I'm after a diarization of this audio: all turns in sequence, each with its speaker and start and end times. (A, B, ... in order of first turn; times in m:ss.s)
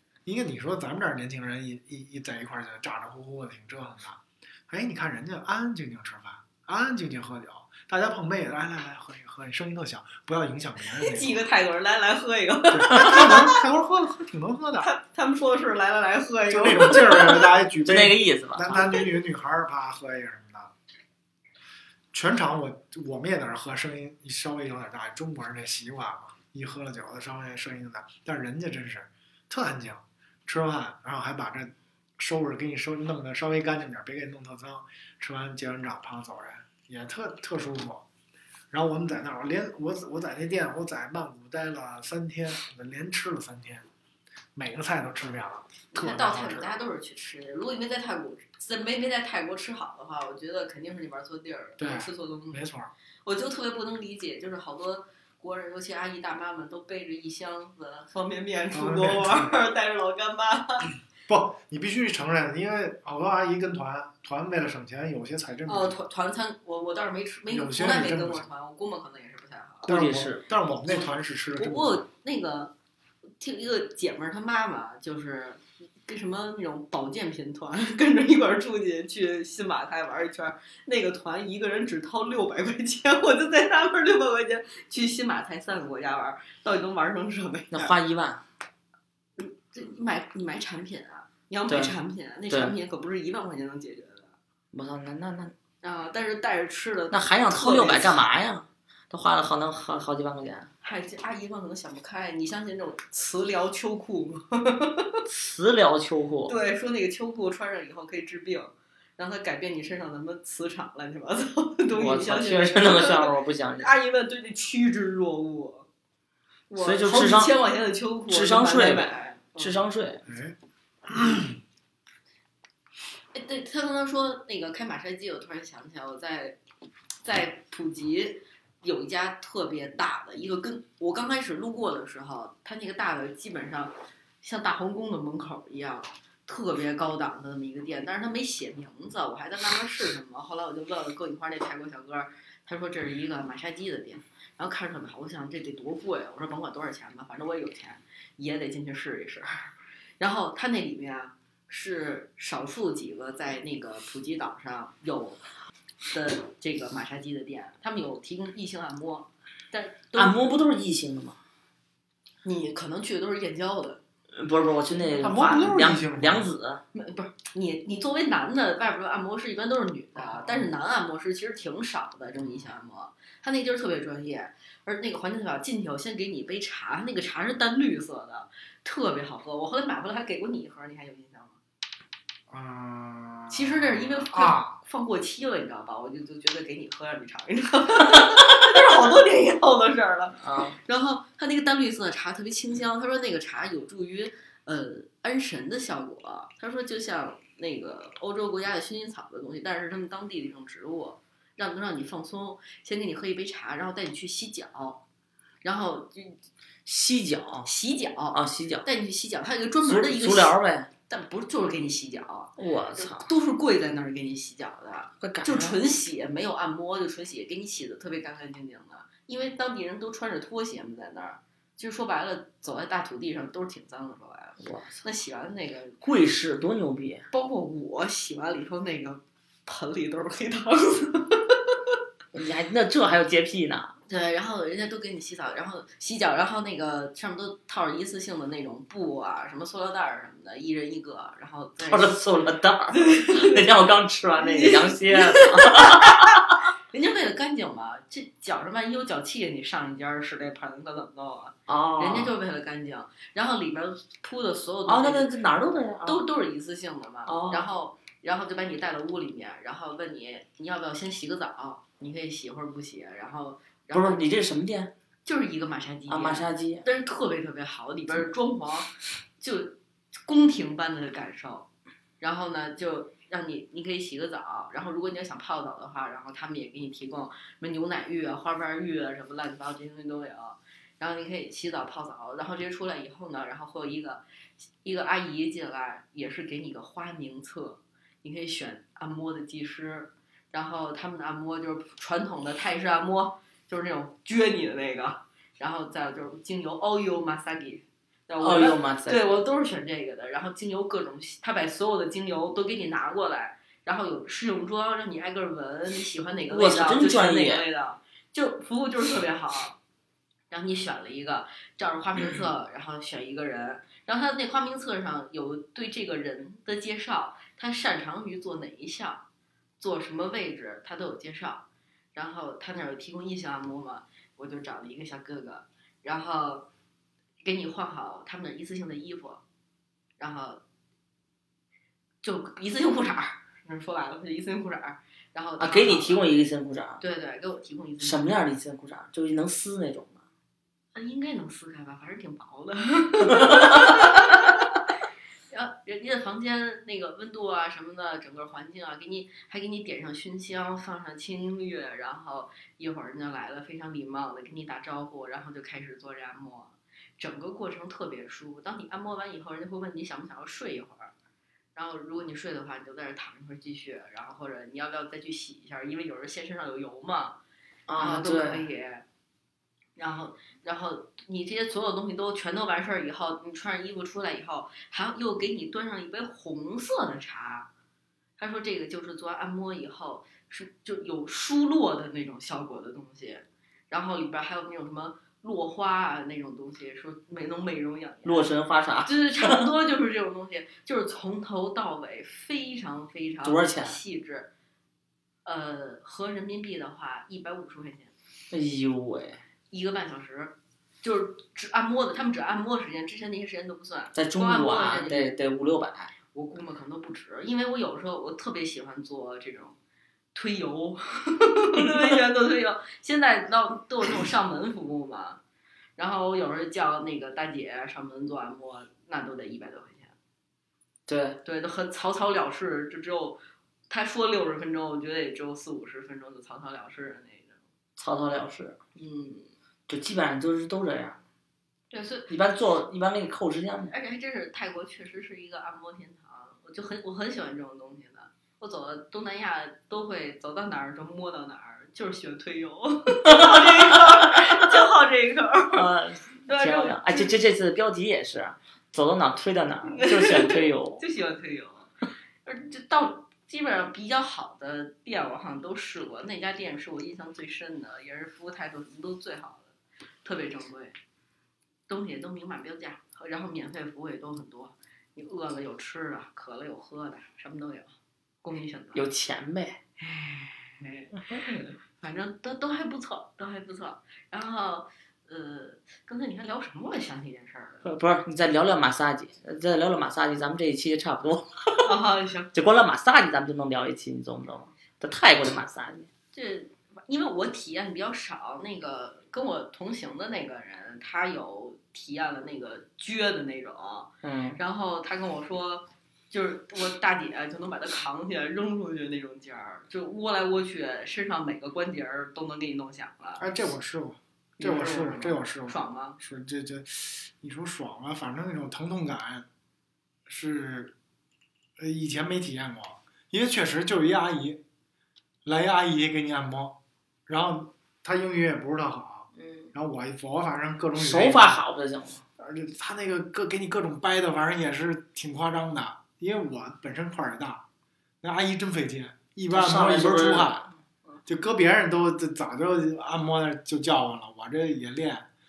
0:00.2-0:11.4 A
0:11.0-0:13.6 B
0:12.7-0:14.9 A
0:14.8-0:17.5 B
0:16.5-0:20.7 A
0:17.8-0:18.8 C
0:22.1-0:38.0 A
0:38.7-0:43.9 A
0:44.6-0:46.7 A
0:45.9-0:52.6 B
0:51.8-0:52.9 A
0:53.2-1:00.9 B
0:58.7-0:59.5 A
1:01.3-1:06.0 A
1:05.7-1:09.9 B
1:07.5-1:08.5 A
1:09.8-1:10.4 C
1:09.9-1:12.0 A
1:10.9-1:12.7 B
1:13.4-1:28.0 B
1:27.7-1:28.4 C
1:29.4-1:34.4 B
1:31.7-1:32.0 C
1:32.5-1:32.8 C
1:34.7-1:35.5 C
1:35.8-1:38.2 B
1:37.1-1:40.7 C
1:40.8-1:45.2 B
1:45.3-1:46.6 C
1:46.5-1:55.9 B
1:51.9-1:53.9 C
1:56.7-1:59.8 B
1:56.8-1:57.5 C
1:58.3-2:00.2 C
2:00.3-2:00.6 A
2:01.1-2:01.6 A
2:03.3-2:06.6 B
2:07.2-2:35.4 B
2:36.1-2:40.4 B
2:40.2-2:41.4 C
2:42.4-2:44.0 B
2:44.3-2:46.8 C
2:45.2-2:46.5 A
2:46.9-3:01.6 B
2:50.2-2:50.6 C
3:02.5-3:04.8 A
3:03.5-3:25.0 B
3:10.4-3:10.8 C
3:25.6-3:26.4 B
3:26.9-3:27.7 C
3:27.6-3:30.6 B
3:28.3-3:28.9 C
3:29.8-3:30.9 C
3:31.1-3:46.0 B
3:32.6-3:33.3 C
3:35.2-3:35.8 C
3:44.6-3:45.0 C
3:46.0-3:47.2 C
3:47.3-3:51.8 B
3:52.3-3:54.0 C
3:54.1-4:02.2 B
4:01.8-4:06.6 C
4:02.9-4:03.7 B
4:04.4-4:15.3 B
4:11.7-4:12.3 C
4:14.9-4:16.2 C
4:16.0-4:24.3 B
4:17.3-4:17.6 C
4:23.9-4:24.9 C
4:25.3-4:31.7 B
4:26.1-4:26.8 C
4:32.2-4:44.2 B
4:44.8-5:09.8 B
4:58.4-4:59.3 C
5:06.5-5:07.6 C
5:10.5-5:19.2 B
5:19.8-5:26.7 B
5:27.4-5:29.4 B
5:30.2-5:30.6 B
5:32.2-5:36.2 B
5:35.6-5:37.0 C
5:37.0-5:38.4 B
5:38.0-5:40.2 C
5:40.9-5:44.6 B
5:43.2-5:44.0 C
5:45.5-6:01.1 B
6:01.8-6:07.4 B
6:07.9-6:08.6 C
6:08.0-6:09.1 B
6:10.0-6:17.7 B
6:18.4-6:28.5 B
6:28.2-6:29.7 C
6:29.0-6:34.5 B
6:33.4-6:34.0 C
6:35.4-6:38.1 B
6:38.5-6:39.4 C
6:39.7-6:45.4 B
6:44.1-6:46.1 C
6:46.3-6:49.8 B
6:50.3-6:55.4 B
6:51.8-6:52.2 C
6:56.0-7:00.2 B
7:01.1-7:01.4 C
7:01.4-7:07.6 B
7:08.0-7:08.8 C
7:09.0-7:09.5 B
7:09.9-7:11.2 C
7:11.9-7:12.3 B
7:12.3-7:13.9 C
7:13.9-7:25.8 B
7:23.3-7:24.4 C
7:25.7-7:31.0 C
7:26.5-7:27.3 B
7:29.9-7:31.9 B
7:32.4-7:41.0 B
7:41.9-7:47.9 B
7:48.4-7:49.0 B
7:48.9-7:49.8 C
7:50.0-7:57.9 B
7:57.8-8:01.9 C
8:01.8-8:02.5 B
8:02.5-8:06.1 C
8:06.3-8:23.5 B
8:14.2-8:14.6 C
8:23.4-8:29.5 A
8:24.6-8:26.2 B
8:30.3-8:30.9 A
8:31.8-8:34.6 A
8:35.4-8:41.6 A
8:39.4-8:39.7 B
8:40.9-8:42.2 C
8:42.4-8:47.6 A
8:48.2-8:50.7 A
8:49.5-8:50.6 C
8:51.3-8:55.3 A